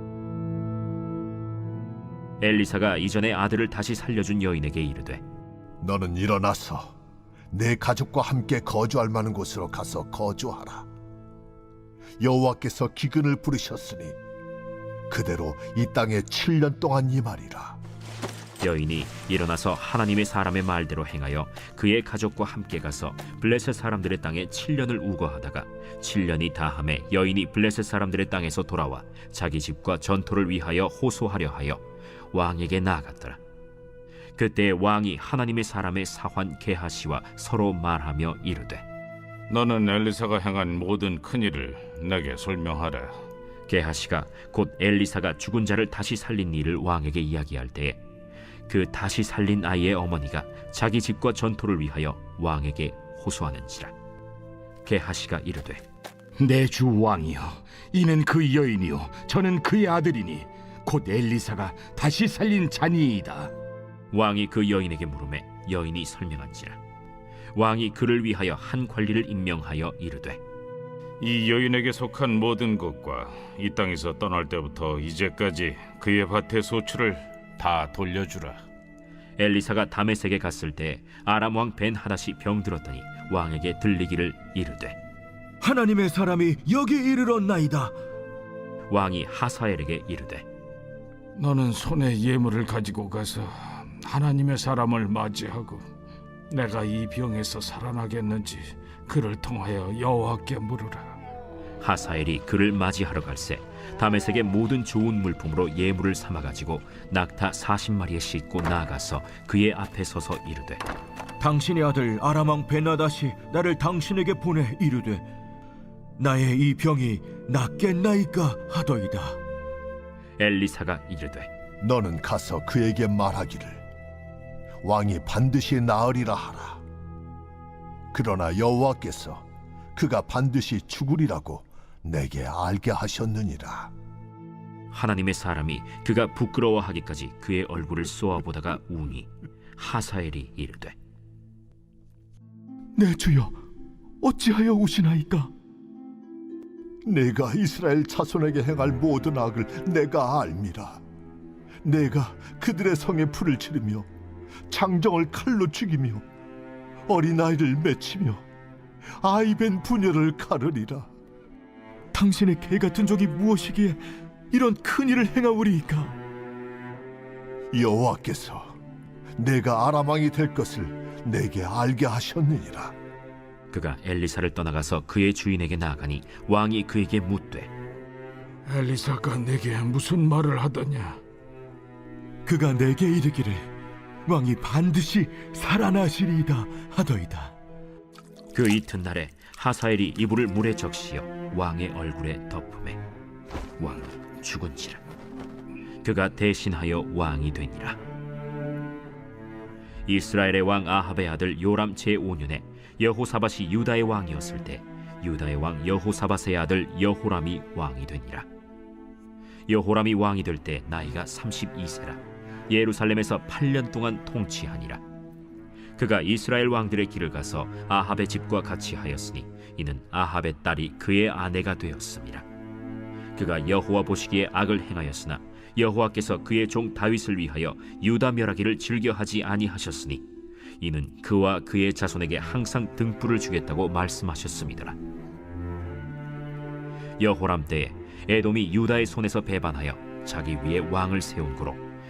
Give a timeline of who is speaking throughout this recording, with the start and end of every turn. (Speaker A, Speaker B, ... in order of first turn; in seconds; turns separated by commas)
Speaker A: 2.4-5.2, Speaker B: 5.8-6.9, Speaker B: 7.5-10.9, Speaker B: 12.2-14.2, Speaker B: 15.1-17.8, Speaker A: 18.6-31.8, Speaker A: 32.3-33.4, Speaker A: 34.4-38.8, Speaker C: 39.5-43.1, Speaker A: 43.7-48.0, Speaker A: 48.7-53.9, Speaker A: 54.8-55.8, Speaker D: 56.4-63.5, Speaker A: 64.1-66.8, Speaker A: 67.5-70.4, Speaker C: 71.2-78.6, Speaker A: 79.4-85.0, Speaker E: 85.6-88.0, Speaker A: 88.9-90.4, Speaker C: 91.4-95.8, Speaker C: 96.5-101.1, Speaker A: 101.8-110.8, Speaker E: 111.4-115.2, Speaker E: 116.2-119.4, Speaker A: 120.4-121.5, Speaker B: 121.8-123.8, Speaker B: 124.8-126.8, Speaker B: 128.1-129.4, Speaker B: 129.9-133.9, Speaker A: 134.9-140.9, Speaker E: 143.0-143.5, Speaker E: 144.2-145.5, Speaker B: 147.0-151.0, Speaker B: 151.8-154.1, Speaker B: 154.7-156.2, Speaker B: 157.1-158.4, Speaker B: 159.2-161.1, Speaker E: 162.1-166.2, Speaker B: 167.7-168.8, Speaker B: 169.4-172.9, Speaker A: 173.7-177.7, Speaker C: 178.7-181.2, Speaker E: 182.4-183.7, Speaker E: 184.2-187.5, Speaker A: 188.5-193.0, Speaker A: 193.8-195.0, Speaker A: 196.0-198.0, Speaker A: 200.1-208.5, Speaker A: 209.7-215.0, Speaker A: 216.0-222.4, Speaker A: 223.3-230.2, Speaker A: 230.8-234.9, Speaker A: 237.2-241.8